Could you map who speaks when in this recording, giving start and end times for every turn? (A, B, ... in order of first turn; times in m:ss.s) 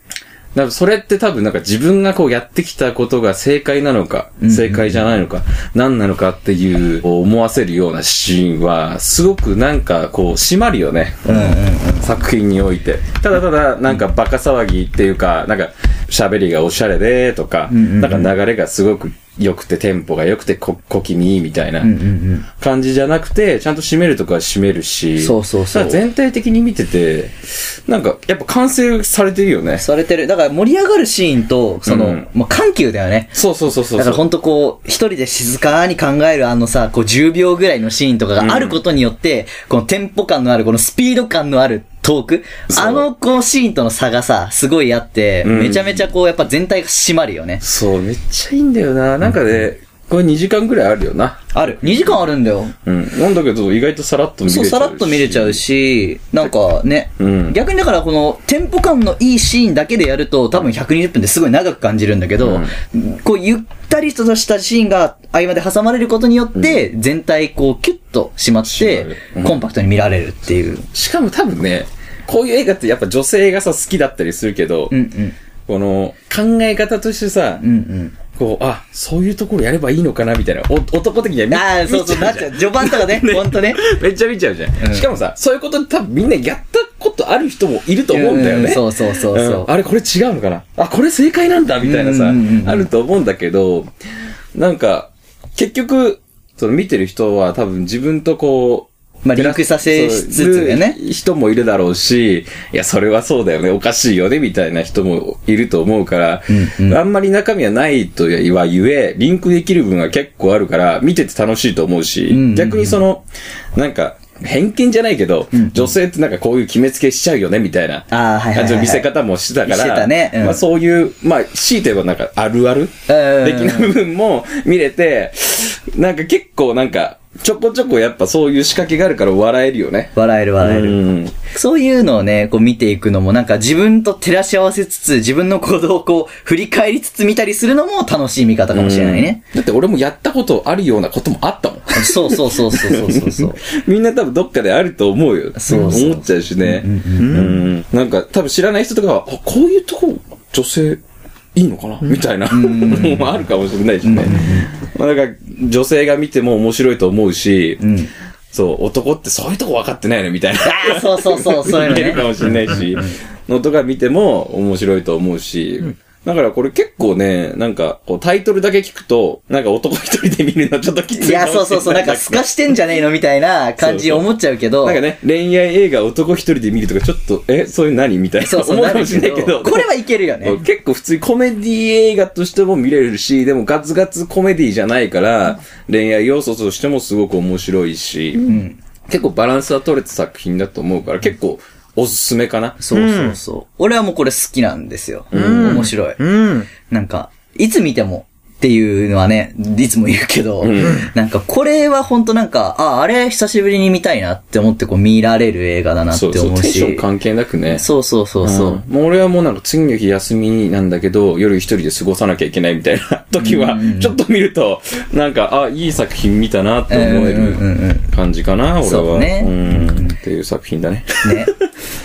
0:00.6-0:21.9 A
0:04.4-0:05.1 B
0:11.3-0:12.1 B
0:17.7-0:18.3 B
0:21.8-0:22.5 B
0:22.5-0:29.8 A
0:25.2-0:26.0 B
0:29.8-0:33.4 B
0:31.9-0:32.3 A
0:33.4-0:34.2 A
0:33.9-0:47.6 B
0:38.4-0:38.8 A
0:42.7-0:43.1 A
0:45.4-0:46.1 A
0:47.6-0:52.2 A
0:51.5-0:52.8 B
0:52.8-0:55.6 A
0:54.5-1:10.8 B
0:57.2-0:57.6 A
1:02.4-1:02.7 A
1:06.6-1:06.8 A
1:08.6-1:09.6 A
1:10.9-1:14.9 A
1:14.9-1:15.4 B
1:15.7-1:17.6 A
1:17.6-1:18.2 B
1:18.3-1:33.9 A
1:21.5-1:23.8 B
1:24.8-1:25.1 B
1:28.1-1:29.7 B
1:31.8-1:32.9 B
1:34.6-1:53.2 A
1:39.2-1:41.0 B
1:46.5-1:47.0 B
1:52.3-1:53.0 B
1:53.8-2:11.4 A
1:55.5-1:55.9 B
1:58.1-1:59.1 B
1:59.6-2:00.6 B
2:03.1-2:04.0 B
2:10.2-2:19.4 B
2:18.7-2:31.0 A
2:21.9-2:23.6 B
2:25.6-2:27.5 B
2:27.2-2:27.6 C
2:31.6-2:37.8 A
2:32.5-2:33.4 B
2:34.0-2:34.7 B
2:37.8-2:38.1 B
2:38.5-2:52.7 A
2:40.6-2:43.1 B
2:51.2-2:55.0 B
2:53.8-2:54.2 A
2:54.8-3:08.6 A
2:58.4-3:00.6 B
3:08.4-3:08.8 B
3:09.1-3:12.8 A
3:12.8-3:16.2 B
3:12.9-3:13.4 C
3:15.3-3:15.9 A
3:15.3-3:16.7 C
3:16.9-3:27.0 B
3:20.6-3:21.1 A
3:20.8-3:21.1 C
3:26.1-3:27.8 A
3:27.7-3:28.8 B
3:28.4-3:41.5 A
3:33.4-3:34.2 B
3:36.9-3:38.1 B
3:38.8-3:40.2 B
3:41.2-3:41.5 B